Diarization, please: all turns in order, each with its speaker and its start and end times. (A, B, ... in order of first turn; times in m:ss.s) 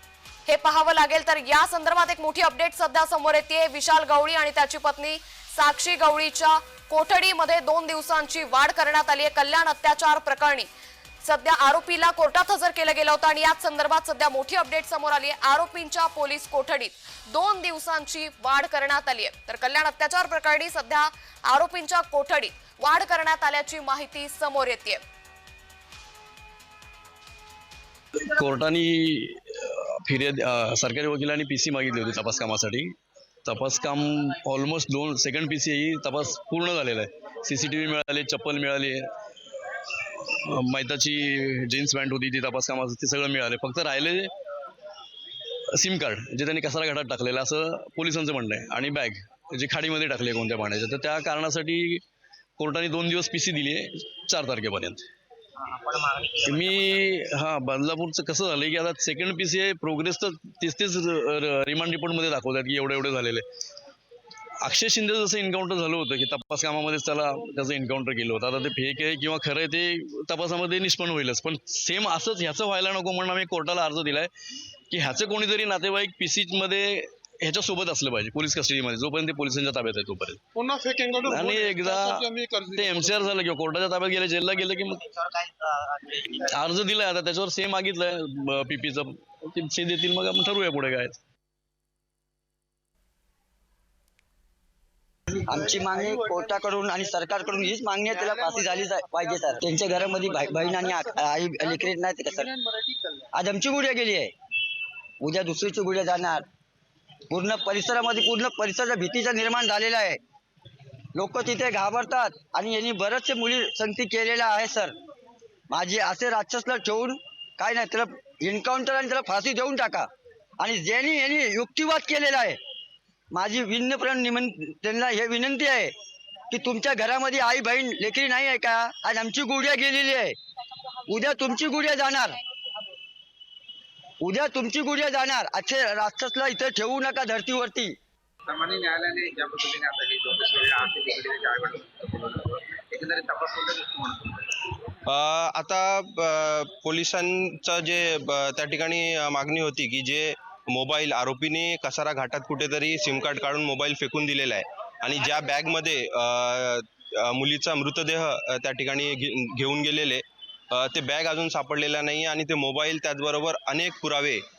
0:00.4-0:10.7 A
0:11.2-0:25.0 A
0:28.2-0:39.0 B
0:39.6-0:44.3 B
0:45.7-0:52.0 B
0:52.6-0:55.1 B
0:55.6-0:56.8 C
0:56.3-1:03.4 B
1:04.6-1:14.3 B
1:14.9-1:20.4 B
1:20.5-1:23.3 D
1:21.2-1:25.2 B
1:26.0-1:31.2 B
1:35.5-1:42.5 E
1:38.2-1:38.8 D
1:40.3-1:41.0 D
1:42.7-1:43.2 D
1:43.3-1:44.3 E
1:45.2-1:46.4 E
1:47.3-1:50.2 E
1:51.1-1:54.9 E
1:55.7-2:00.1 E
2:00.6-2:02.6 E
2:03.3-2:05.9 E
2:06.5-2:10.4 E
2:11.1-2:12.4 E
2:14.2-2:18.0 E
2:18.4-2:24.5 C
2:25.0-2:44.4 F